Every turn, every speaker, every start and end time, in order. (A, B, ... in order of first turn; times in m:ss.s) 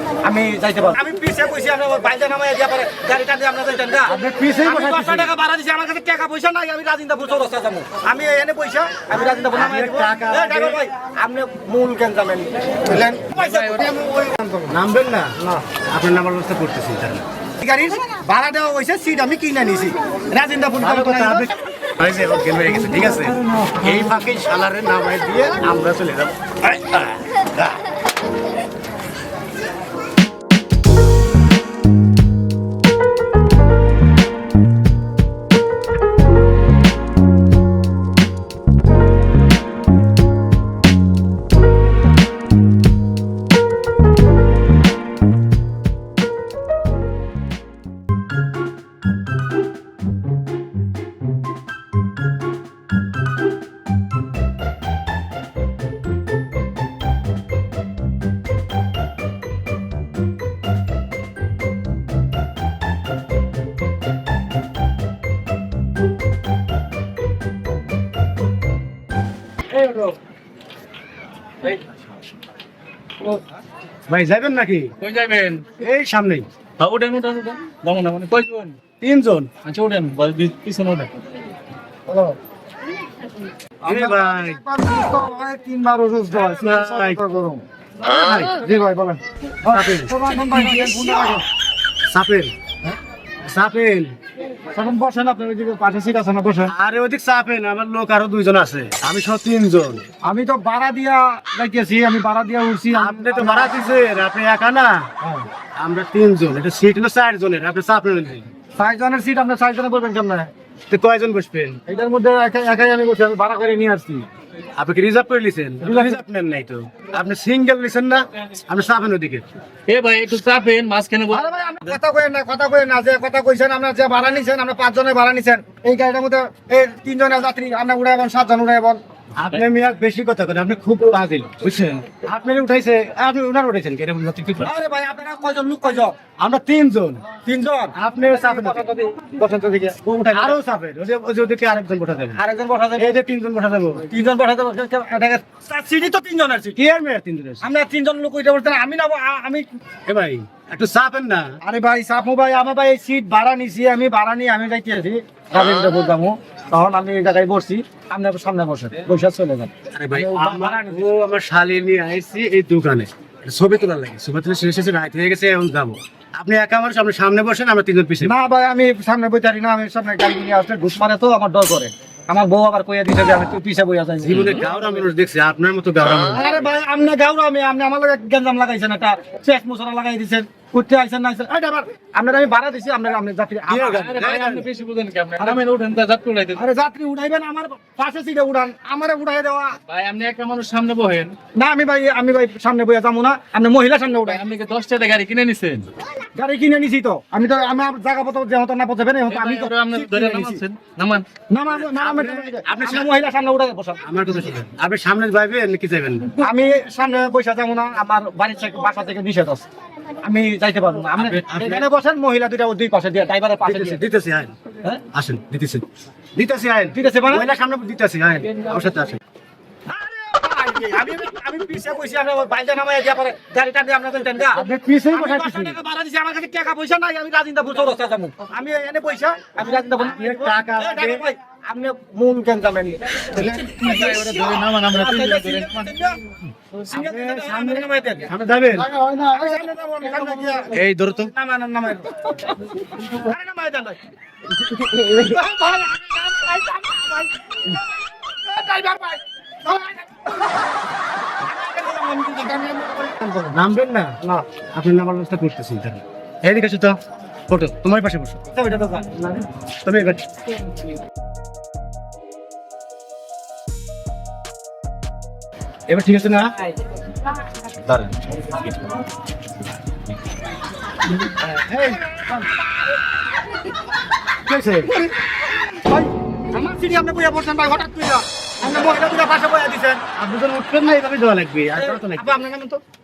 0:00.2-0:14.8 A
0:04.1-0:05.3 B
0:09.4-0:10.8 B
0:13.3-0:13.9 C
0:14.7-0:15.3 B
0:15.4-0:15.6 A
0:15.9-0:17.2 B
0:17.6-0:21.5 A
0:20.8-0:27.8 B
0:22.8-0:24.2 A
1:09.7-1:10.1 C
1:14.1-1:14.9 B
1:15.0-1:15.8 C
1:15.8-1:16.4 B
1:16.8-1:18.8 C
1:19.0-1:19.5 B
1:19.6-1:21.1 C
1:22.1-1:22.4 A
1:23.8-1:27.6 A
1:23.8-1:24.6 B
1:26.3-1:27.2 B
1:28.0-1:28.6 B
1:28.5-1:31.4 A
1:29.7-1:30.1 B
1:32.1-1:32.5 B
1:33.5-1:34.1 B
1:34.7-1:36.7 A
1:36.7-1:40.0 B
1:40.2-1:43.8 A
1:42.9-1:45.1 B
1:45.2-1:45.4 A
1:45.8-1:48.5 B
1:48.8-1:50.5 A
1:50.9-1:51.8 B
1:51.9-1:54.3 A
1:54.8-1:59.4 B
1:55.8-1:56.2 A
1:59.9-2:01.9 C
2:01.3-2:09.0 A
2:09.4-2:14.7 B
2:14.6-2:16.2 A
2:16.4-2:17.2 B
2:17.4-2:20.6 A
2:17.9-2:18.8 B
2:20.2-2:22.4 B
2:22.4-2:23.2 A
2:23.0-2:24.1 B
2:24.0-2:26.8 A
2:26.8-2:27.6 B
2:27.6-2:29.7 A
2:30.1-2:31.6 B
2:31.6-2:41.1 A
2:39.9-2:48.3 B
2:48.2-2:54.6 A
2:54.2-2:56.6 B
2:56.3-3:04.2 A
3:03.7-3:04.7 B
3:03.8-3:06.6 C
3:06.5-3:09.8 A
3:09.9-3:11.4 C
3:11.5-3:14.4 A
3:14.3-3:15.9 C
3:16.3-3:20.6 A
3:19.3-3:21.2 C
3:21.5-3:24.0 A
3:21.7-3:23.1 B
3:24.0-3:26.4 B
3:26.4-3:29.7 A
3:30.2-3:34.0 A
3:31.2-3:31.8 B
3:33.6-3:39.2 B
3:36.9-3:37.5 A
3:39.9-3:56.2 A
3:44.5-3:45.8 B
3:50.0-3:51.2 B
3:53.4-3:55.9 C
3:56.8-4:02.1 A
3:56.9-3:58.9 B
4:00.7-4:01.3 B
4:02.9-4:04.0 A
4:04.5-4:10.6 A
4:11.4-4:13.6 A
4:13.5-4:14.1 B
4:14.7-4:18.4 B
4:18.5-4:19.4 A
4:19.8-4:20.2 B
4:25.9-4:26.5 B
4:27.8-4:28.6 B
4:31.4-4:32.0 B
4:31.8-4:32.6 A
4:34.5-4:34.9 B
4:35.7-4:40.0 A
4:40.1-4:42.3 B
4:41.8-4:42.8 A